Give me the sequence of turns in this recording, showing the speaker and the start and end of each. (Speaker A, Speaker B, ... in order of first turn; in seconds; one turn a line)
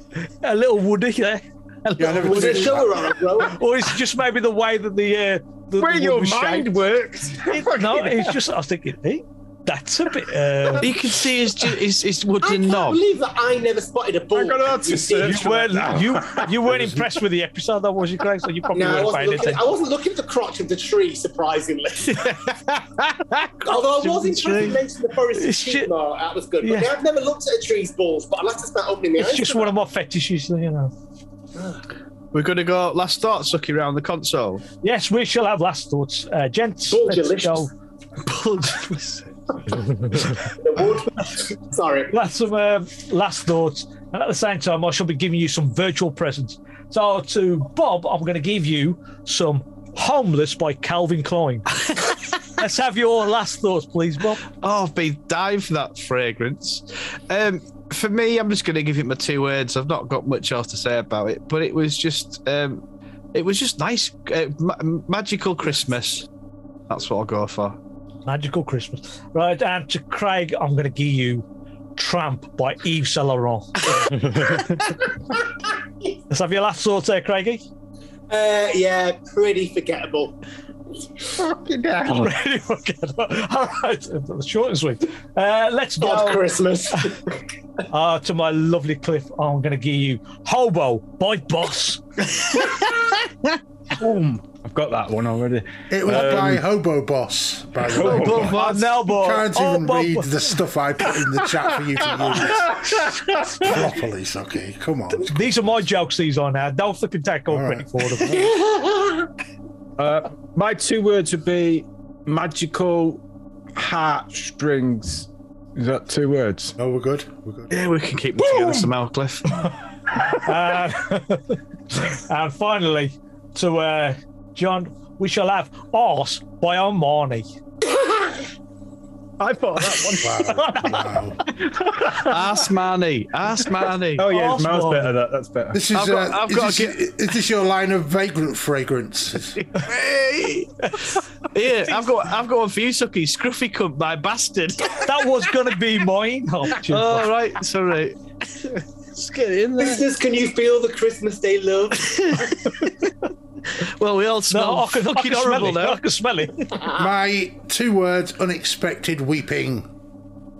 Speaker A: 0.2-2.9
Speaker B: 2.0-2.9
Speaker C: 2.0-3.6
Speaker A: 3.4-6.8
Speaker D: 5.8-8.4
Speaker A: 7.5-11.2
Speaker E: 10.8-13.0
Speaker C: 12.4-15.4
Speaker D: 14.3-17.0
Speaker A: 15.2-19.6
Speaker C: 18.7-22.6
Speaker E: 22.3-24.8
Speaker C: 23.6-29.7
Speaker A: 25.3-25.9
Speaker A: 26.6-26.9
Speaker A: 29.2-30.9
Speaker E: 32.3-34.6
Speaker A: 34.8-37.7
Speaker C: 36.9-37.7
Speaker E: 38.2-39.6
Speaker C: 40.5-42.1
Speaker A: 42.1-54.4
Speaker E: 54.6-62.8
Speaker E: 63.3-66.3
Speaker E: 66.9-67.8
Speaker A: 68.2-71.4
Speaker A: 72.0-74.1
Speaker A: 76.3-77.6
Speaker C: 78.3-80.3
Speaker D: 81.3-82.3
Speaker A: 82.0-87.1
Speaker C: 86.0-87.4
Speaker A: 87.9-92.0
Speaker D: 94.0-96.6
Speaker B: 95.9-102.9
Speaker D: 97.9-98.6
Speaker E: 97.9-99.0
Speaker A: 98.5-100.4
Speaker D: 102.2-103.8
Speaker B: 103.6-105.3
Speaker A: 105.1-108.5
Speaker B: 107.5-108.0
Speaker C: 108.3-109.3
Speaker D: 110.0-113.2
Speaker D: 113.7-116.7
Speaker B: 116.8-117.7
Speaker E: 117.7-119.5
Speaker A: 120.3-127.5
Speaker C: 128.0-128.4
Speaker D: 129.4-130.6
Speaker A: 129.8-131.2
Speaker B: 130.2-131.4
Speaker D: 131.6-132.6
Speaker E: 132.2-134.2
Speaker D: 134.1-135.8
Speaker A: 134.3-135.1
Speaker B: 135.7-139.6
Speaker E: 135.9-137.0
Speaker E: 139.6-145.1
Speaker A: 144.9-147.3
Speaker E: 146.8-150.1
Speaker C: 149.8-152.7
Speaker E: 152.0-152.5
Speaker E: 153.8-156.0
Speaker A: 154.5-156.7
Speaker B: 156.9-159.9